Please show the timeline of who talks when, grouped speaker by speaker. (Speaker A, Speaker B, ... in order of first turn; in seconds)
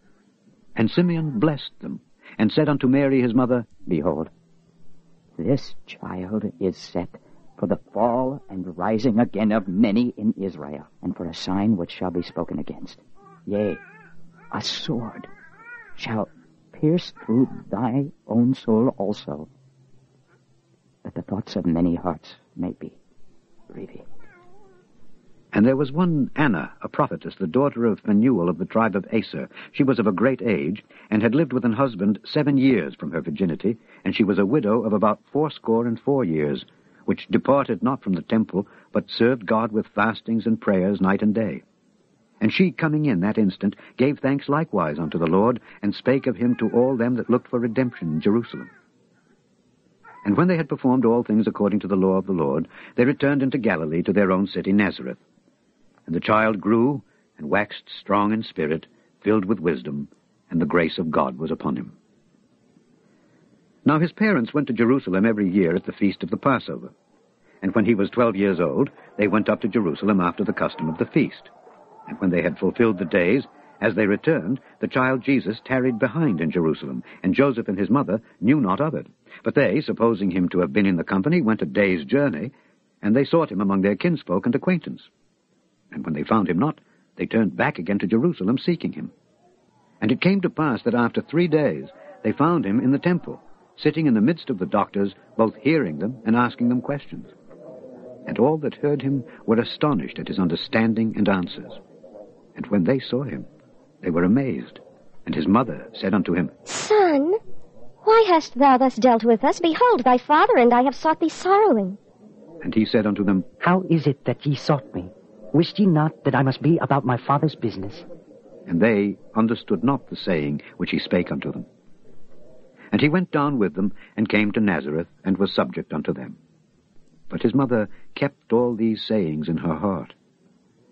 Speaker A: 0.8-3.7, 25.5-41.6, 42.4-48.7, 50.2-55.2, 56.1-61.9, 63.8-66.9, 67.6-71.5, 72.1-85.1, 85.9-89.1, 90.0-97.3, 98.2-101.8, 102.5-103.5, 104.0-106.5, 112.6-113.5, 118.7-121.7, 122.9-126.4, 127.3-130.1
Speaker B: 3.8-4.3, 5.4-13.8, 14.5-15.3, 16.0-19.5, 21.0-23.0, 23.7-24.0, 113.6-118.0
Speaker C: 106.7-107.3, 108.0-112.0